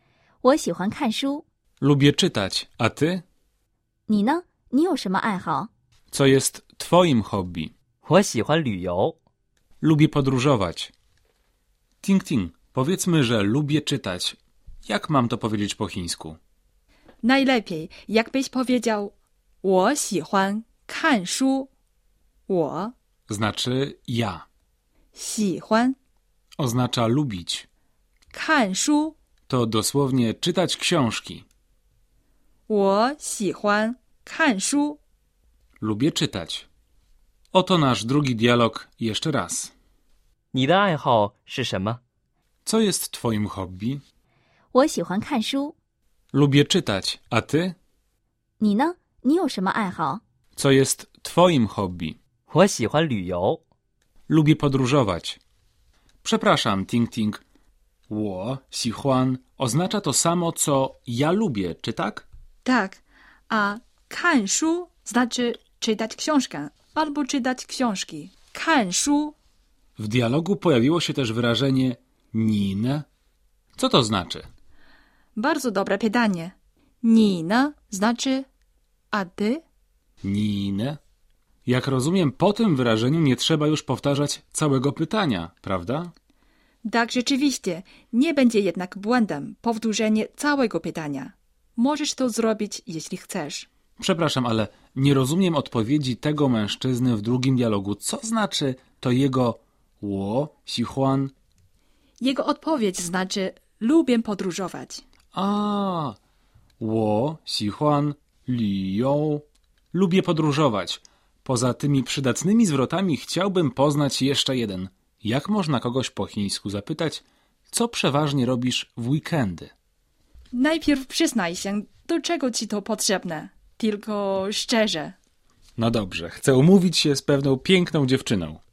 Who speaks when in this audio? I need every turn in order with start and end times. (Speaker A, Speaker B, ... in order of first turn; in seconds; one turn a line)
Speaker A: 0.4-1.4
Speaker B: 1.8-3.2
Speaker A: 4.1-5.7
Speaker B: 6.1-7.7
Speaker C: 8.0-9.2
Speaker B: 9.8-10.9
Speaker B: 12.0-16.4
Speaker D: 17.2-21.7
Speaker D: 22.5-22.9
Speaker B: 23.3-24.5
Speaker D: 25.1-26.0
Speaker B: 26.6-27.7
Speaker D: 28.3-29.2
Speaker B: 29.5-31.4
Speaker D: 32.7-35.0
Speaker B: 35.8-36.7
Speaker B: 37.5-39.7
Speaker C: 40.5-42.0
Speaker B: 42.6-44.0
Speaker A: 44.7-45.8
Speaker B: 46.3-47.8
Speaker A: 48.6-50.2
Speaker B: 50.6-52.2
Speaker C: 52.5-53.6
Speaker B: 54.3-55.4
Speaker B: 56.2-57.4
Speaker B: 58.1-62.3
Speaker D: 62.6-69.3
Speaker B: 70.0-73.0
Speaker B: 73.8-74.5
Speaker D: 75.4-78.5
Speaker D: 79.1-79.6
Speaker B: 80.2-81.0
Speaker B: 81.7-86.1
Speaker D: 86.8-93.7
Speaker B: 94.0-101.3
Speaker D: 102.2-105.0
Speaker B: 105.3-106.2
Speaker B: 106.8-119.7
Speaker D: 120.5-125.2
Speaker B: 125.8-128.6